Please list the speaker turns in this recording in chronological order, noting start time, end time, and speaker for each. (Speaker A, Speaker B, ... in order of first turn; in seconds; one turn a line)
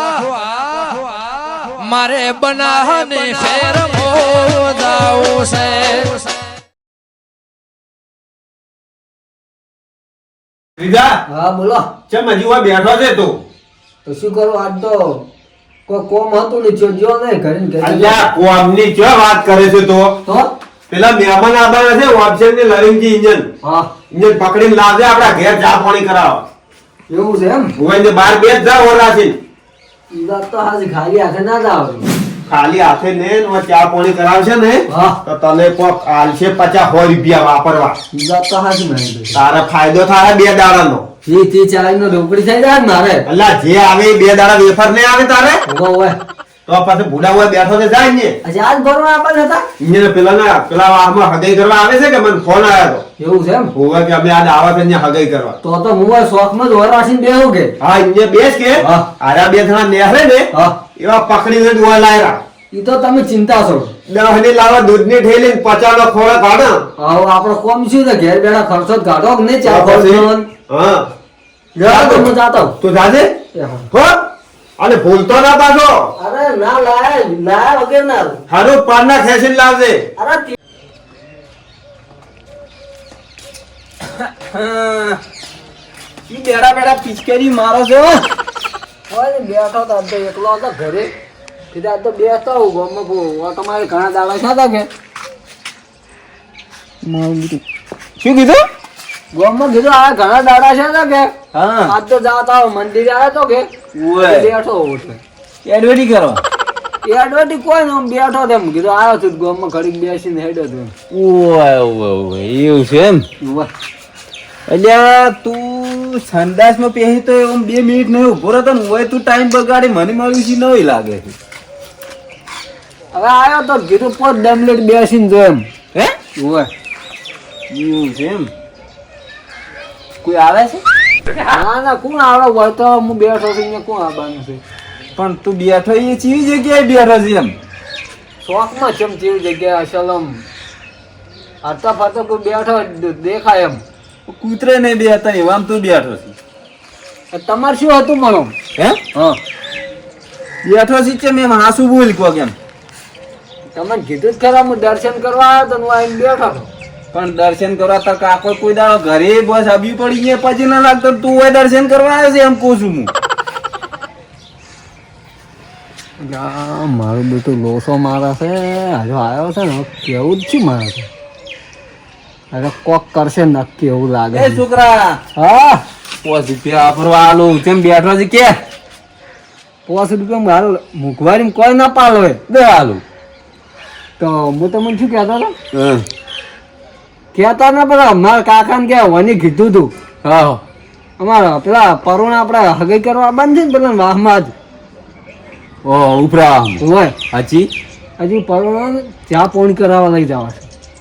Speaker A: 1.8-6.0
Speaker B: 10.8-11.2
Speaker C: 11.3-11.9
Speaker B: 12.1-13.4
Speaker C: 14.1-15.2
Speaker C: 15.9-18.3
Speaker B: 17.8-20.2
Speaker C: 20.3-20.5
Speaker B: 20.9-23.5
Speaker C: 23.6-23.9
Speaker B: 24.1-26.4
Speaker C: 27.1-27.7
Speaker B: 27.8-29.4
Speaker C: 30.1-32.1
Speaker B: 32.5-38.0
Speaker C: 34.9-35.2
Speaker C: 38.1-39.4
Speaker B: 39.3-41.1
Speaker C: 41.3-43.2
Speaker B: 43.3-45.6
Speaker C: 45.7-46.2
Speaker B: 46.7-48.4
Speaker C: 48.4-49.6
Speaker B: 49.8-53.0
Speaker C: 53.2-53.7
Speaker B: 53.7-55.6
Speaker C: 55.6-57.7
Speaker B: 57.8-62.4
Speaker C: 58.8-59.1
Speaker C: 62.7-63.9
Speaker B: 64.1-66.8
Speaker C: 67.0-70.5
Speaker B: 69.7-71.1
Speaker C: 71.8-72.8
Speaker B: 71.8-73.3
Speaker C: 73.5-73.9
Speaker B: 73.9-74.2
Speaker B: 74.8-76.1
Speaker C: 76.2-78.4
Speaker B: 78.5-80.1
Speaker C: 80.2-80.5
Speaker D: 84.2-85.2
Speaker D: 86.3-88.2
Speaker C: 89.1-91.1
Speaker C: 91.7-94.9
Speaker D: 97.0-97.6
Speaker D: 98.2-98.6
Speaker C: 99.3-101.3
Speaker D: 101.5-101.9
Speaker C: 101.9-103.7
Speaker D: 103.9-104.5
Speaker C: 104.2-105.2
Speaker D: 105.7-106.4
Speaker C: 107.0-110.9
Speaker D: 111.1-113.2
Speaker C: 113.4-113.7
Speaker D: 114.7-121.3
Speaker C: 123.1-125.7
Speaker C: 126.4-126.7
Speaker D: 127.7-128.5
Speaker D: 130.2-130.8
Speaker C: 131.5-134.6
Speaker D: 135.2-137.6
Speaker C: 138.4-140.4
Speaker C: 141.6-143.8
Speaker D: 144.3-146.3
Speaker C: 147.3-148.6
Speaker D: 150.6-152.6
Speaker C: 153.7-156.7
Speaker D: 157.1-163.1
Speaker C: 166.2-171.1
Speaker C: 172.5-174.6
Speaker D: 174.3-175.2
Speaker C: 175.3-175.8
Speaker D: 176.2-178.6
Speaker C: 179.9-182.4
Speaker D: 182.5-183.0
Speaker C: 184.2-185.5
Speaker D: 185.7-186.1
Speaker C: 187.3-189.9
Speaker D: 190.2-190.6
Speaker C: 191.2-194.6
Speaker D: 195.8-197.7
Speaker C: 196.8-197.2
Speaker C: 198.2-200.7